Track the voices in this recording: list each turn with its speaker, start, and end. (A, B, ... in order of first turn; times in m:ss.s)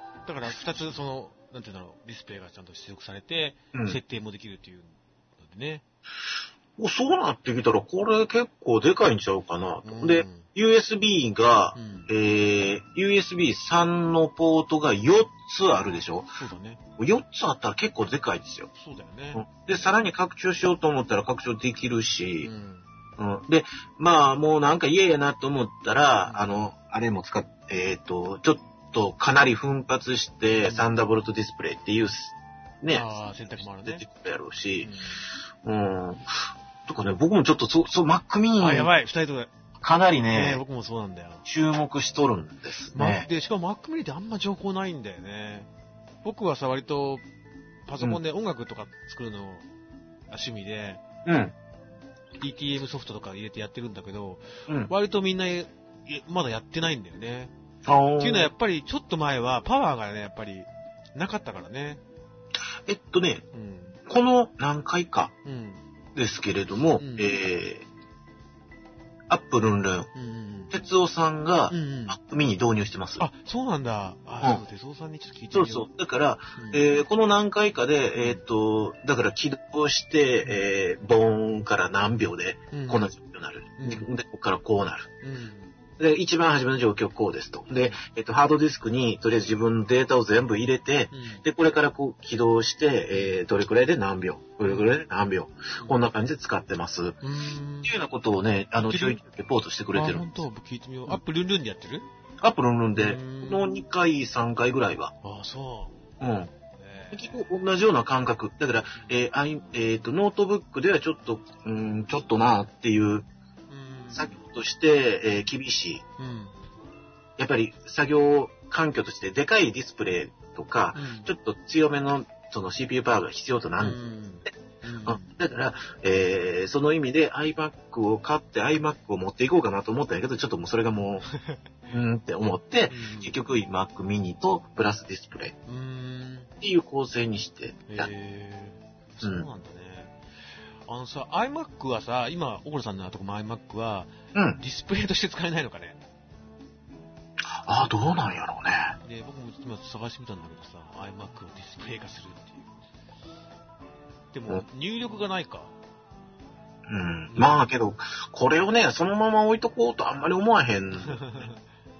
0:00.2-0:05.8 A
0:03.7-0:04.0 B
0:06.8-0:16.4 B
0:09.8-0:10.5 A
0:11.7-0:12.1 A
0:16.4-0:16.8 A
0:17.0-0:18.7 B
0:18.7-0:19.4 A
0:19.4-0:22.5 B
0:22.4-0:22.9 A
0:23.2-0:34.9 B
0:26.2-0:26.5 A
0:30.6-0:30.9 A
0:32.9-0:34.0 A
0:34.8-0:35.2 A
0:35.6-0:38.9 B
0:38.6-0:39.5 A
0:39.8-0:40.6 B
0:40.3-0:41.4 A
0:41.4-0:43.3 B
0:42.9-0:45.7 A
0:46.2-0:47.2 A
0:47.9-0:49.6 A
0:50.3-0:51.0 A
0:51.2-0:51.5 B
0:52.4-0:57.5 A
0:57.9-0:58.5 B
0:58.2-1:02.0 A
1:02.9-1:03.4 B
1:03.5-1:04.0 A
1:04.0-1:05.3 B
1:05.4-1:05.8 A
1:06.1-1:07.9 B
1:07.0-1:07.4 A
1:09.3-1:10.1 B
1:10.1-1:10.7 A
1:10.7-1:13.2 B
1:11.7-1:12.2 A
1:13.2-1:15.9 A
1:15.5-1:25.1 B
1:16.6-1:16.9 A
1:22.7-1:23.0 A
1:23.8-1:24.1 A
1:25.2-1:25.7 A
1:26.0-1:37.2 B
1:31.1-1:31.4 A
1:37.2-1:37.9 A
1:37.8-1:40.3 B
1:38.9-1:39.2 A
1:39.9-1:42.0 A
1:42.4-1:45.1 B
1:43.0-1:43.7 A
1:45.2-1:46.0 A
1:46.2-1:46.5 B
1:46.8-1:47.4 A
1:47.1-1:53.3 B
1:53.7-1:54.4 A
1:54.1-1:56.0 B
1:56.2-1:56.5 A
1:57.4-2:04.0 B
2:00.9-2:01.3 A
2:03.8-2:05.3 A
2:05.0-2:11.3 B
2:11.3-2:11.6 A
2:11.9-2:15.5 B
2:12.9-2:13.4 A
2:15.6-2:16.5 A
2:16.6-2:18.1 B
2:17.9-2:20.2 A
2:19.2-2:19.5 B
2:20.8-2:26.0 A
2:24.4-2:24.6 B
2:27.5-2:29.0 B
2:29.0-2:32.7 A
2:34.3-2:35.7 A
2:36.9-2:41.5 B
2:37.3-2:37.7 A
2:41.0-2:41.6 A